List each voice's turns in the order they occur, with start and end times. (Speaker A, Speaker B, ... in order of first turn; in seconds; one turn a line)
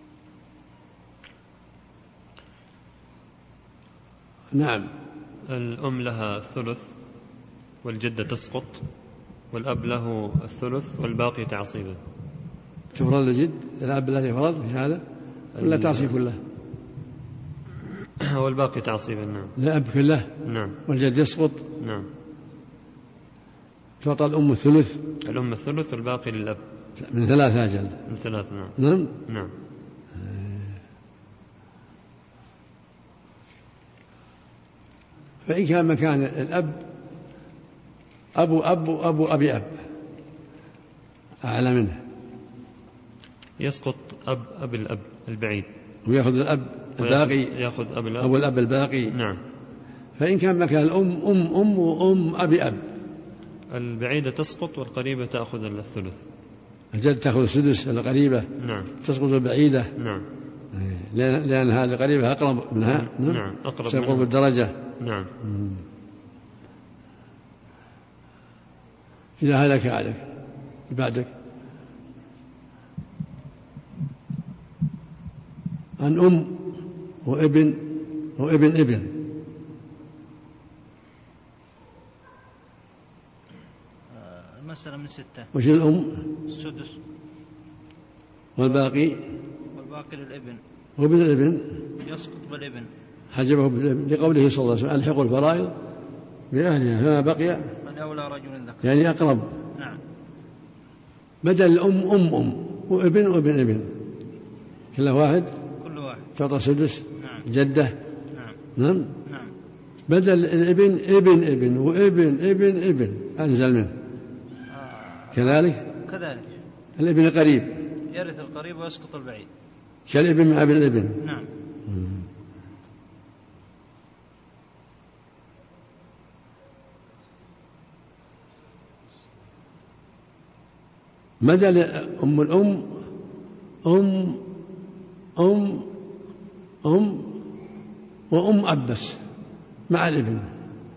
Speaker A: 4.5-4.9
Speaker B: 5.5-6.9
Speaker B: 7.8-8.8
Speaker B: 9.5-12.0
Speaker A: 12.9-15.0
Speaker B: 15.6-16.1
Speaker A: 15.6-16.4
Speaker B: 18.2-19.5
Speaker A: 19.6-20.3
Speaker B: 20.4-20.8
Speaker A: 20.9-21.7
Speaker B: 21.8-22.1
Speaker A: 24.0-25.1
Speaker B: 25.2-26.6
Speaker A: 27.0-28.0
Speaker B: 28.1-28.8
Speaker A: 28.8-29.2
Speaker A: 30.1-30.7
Speaker A: 35.5-36.9
Speaker A: 38.4-39.8
Speaker A: 41.4-42.0
Speaker B: 43.6-45.7
Speaker A: 46.0-47.5
Speaker B: 47.0-48.3
Speaker A: 48.2-49.1
Speaker B: 49.1-49.4
Speaker A: 50.2-52.8
Speaker B: 53.7-56.2
Speaker A: 56.9-58.5
Speaker B: 58.6-58.9
Speaker A: 59.0-59.9
Speaker B: 60.0-60.2
Speaker A: 60.7-64.8
Speaker B: 63.0-64.3
Speaker B: 65.0-65.3
Speaker A: 65.4-65.8
Speaker A: 69.4-70.3
Speaker A: 70.9-71.3
Speaker A: 76.0-79.2
Speaker C: 84.1-85.5
Speaker A: 85.5-86.3
Speaker C: 86.5-87.0
Speaker A: 88.5-89.2
Speaker C: 89.7-90.6
Speaker A: 91.0-91.8
Speaker C: 92.0-92.9
Speaker A: 93.3-95.7
Speaker A: 96.5-97.7
Speaker C: 97.8-98.9
Speaker A: 98.8-99.5
Speaker A: 101.4-104.0
Speaker A: 104.9-105.5
Speaker C: 105.8-106.3
Speaker A: 106.4-108.0
Speaker C: 107.2-107.5
Speaker C: 108.3-108.6
Speaker A: 108.8-109.1
Speaker C: 109.2-109.5
Speaker A: 110.1-113.9
Speaker C: 114.7-116.6
Speaker A: 115.3-115.8
Speaker A: 117.0-117.8
Speaker C: 118.1-119.5
Speaker A: 120.1-121.2
Speaker C: 121.2-121.5
Speaker A: 121.9-122.2
Speaker A: 131.4-133.0
Speaker A: 133.8-134.4
Speaker A: 135.4-135.9
Speaker A: 136.8-137.4
Speaker A: 138.3-139.2
Speaker A: 139.9-140.5